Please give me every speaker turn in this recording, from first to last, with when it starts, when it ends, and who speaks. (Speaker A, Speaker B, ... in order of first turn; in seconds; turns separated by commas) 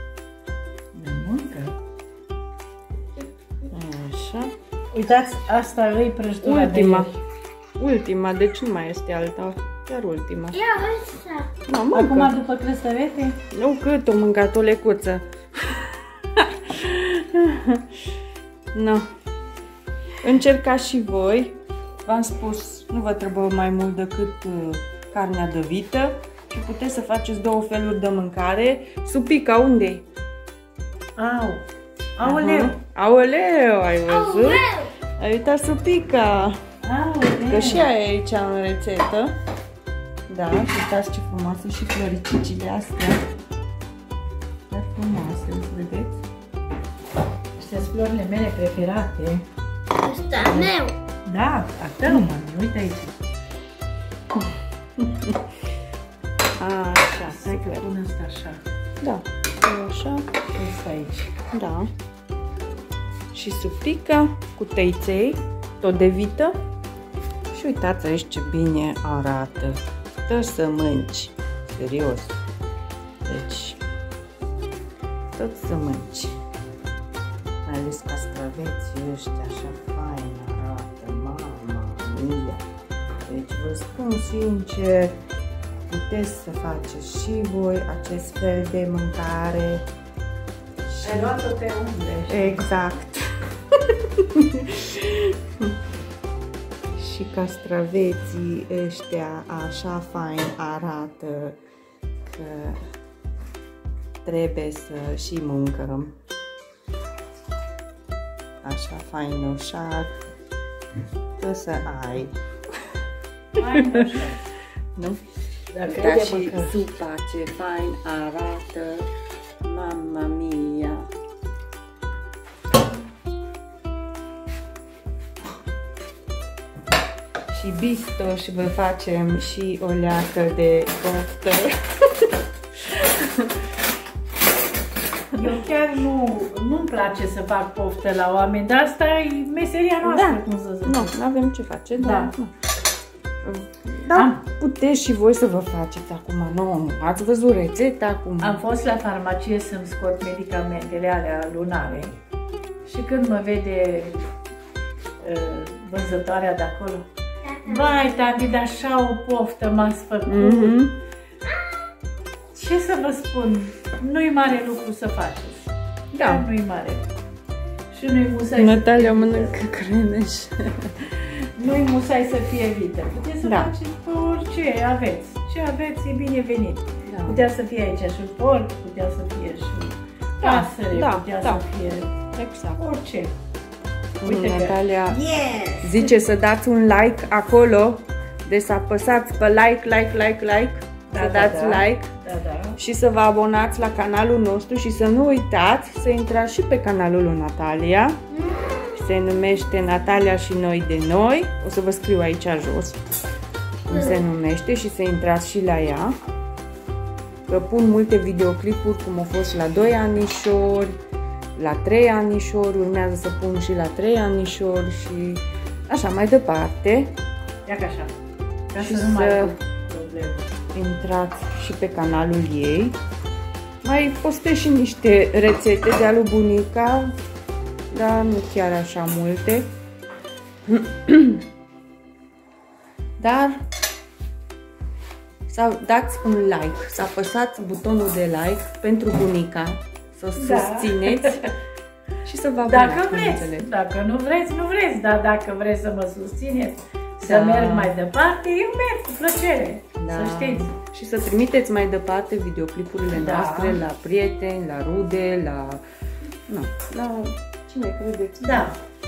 Speaker A: 0.9-1.8, Speaker B: 3.7-4.5, Speaker A: 4.9-7.2, Speaker B: 6.4-7.1, Speaker B: 7.8-10.6, Speaker C: 10.5-11.5, Speaker B: 11.7-12.4, Speaker A: 11.9-13.4, Speaker B: 13.5-18.1, Speaker B: 18.7-19.1, Speaker B: 20.2-30.0, Speaker A: 31.2-31.6, Speaker A: 32.2-32.8, Speaker B: 32.2-36.6, Speaker C: 34.1-34.9, Speaker A: 36.8-37.9, Speaker B: 37.4-39.4, Speaker B: 40.3-43.2, Speaker B: 44.7-46.2, Speaker A: 47.6-49.5, Speaker C: 50.0-51.0, Speaker A: 50.4-50.7, Speaker A: 51.2-53.2, Speaker B: 55.0-55.5, Speaker B: 56.6-57.9, Speaker A: 57.0-58.6, Speaker B: 59.0-60.3, Speaker A: 60.5-61.4, Speaker B: 61.5-61.9, Speaker B: 63.3-66.6, Speaker B: 67.5-72.4, Speaker B: 73.2-73.8, Speaker B: 75.3-76.4, Speaker B: 77.7-82.7, Speaker B: 83.3-85.2, Speaker B: 85.8-89.9, Speaker B: 90.9-91.4, Speaker A: 91.0-92.7, Speaker B: 92.3-95.8, Speaker B: 97.0-101.6, Speaker B: 102.2-102.8, Speaker B: 104.2-106.2, Speaker B: 108.6-110.2, Speaker B: 111.4-112.9, Speaker A: 113.6-114.4, Speaker B: 113.7-114.2, Speaker B: 115.0-115.2, Speaker A: 115.7-116.8, Speaker B: 115.8-119.1, Speaker B: 119.6-121.1, Speaker B: 127.5-133.6, Speaker A: 135.3-141.1, Speaker B: 140.0-142.5, Speaker A: 142.0-142.3, Speaker B: 143.4-148.6, Speaker A: 144.1-144.4, Speaker A: 148.4-152.2, Speaker A: 152.8-154.2, Speaker A: 155.2-157.1, Speaker C: 157.4-158.2, Speaker A: 157.7-160.8, Speaker B: 160.3-161.0, Speaker C: 161.5-161.8, Speaker A: 162.5-167.1, Speaker B: 166.1-166.5, Speaker A: 167.9-169.6, Speaker B: 168.6-171.3, Speaker A: 171.6-182.2, Speaker B: 173.4-173.7, Speaker B: 177.1-177.4, Speaker B: 180.4-181.7, Speaker B: 182.3-182.8, Speaker A: 182.8-183.3, Speaker B: 184.2-185.2, Speaker A: 184.2-186.2, Speaker B: 185.8-192.1, Speaker A: 191.1-192.8, Speaker B: 192.8-198.2, Speaker C: 198.3-198.9, Speaker B: 198.9-203.2, Speaker B: 203.9-206.2, Speaker B: 207.5-211.0, Speaker B: 211.6-217.2, Speaker A: 217.7-218.1, Speaker A: 218.7-220.4, Speaker B: 218.8-219.5, Speaker B: 220.7-223.0, Speaker B: 223.8-227.2, Speaker B: 227.9-229.7, Speaker B: 230.7-231.5, Speaker B: 233.2-233.6, Speaker B: 235.5-241.5, Speaker A: 240.4-241.5, Speaker B: 242.2-243.7, Speaker A: 242.7-250.7, Speaker B: 247.2-247.9, Speaker B: 250.0-255.8, Speaker A: 253.1-253.8, Speaker B: 256.5-258.7, Speaker A: 258.4-258.8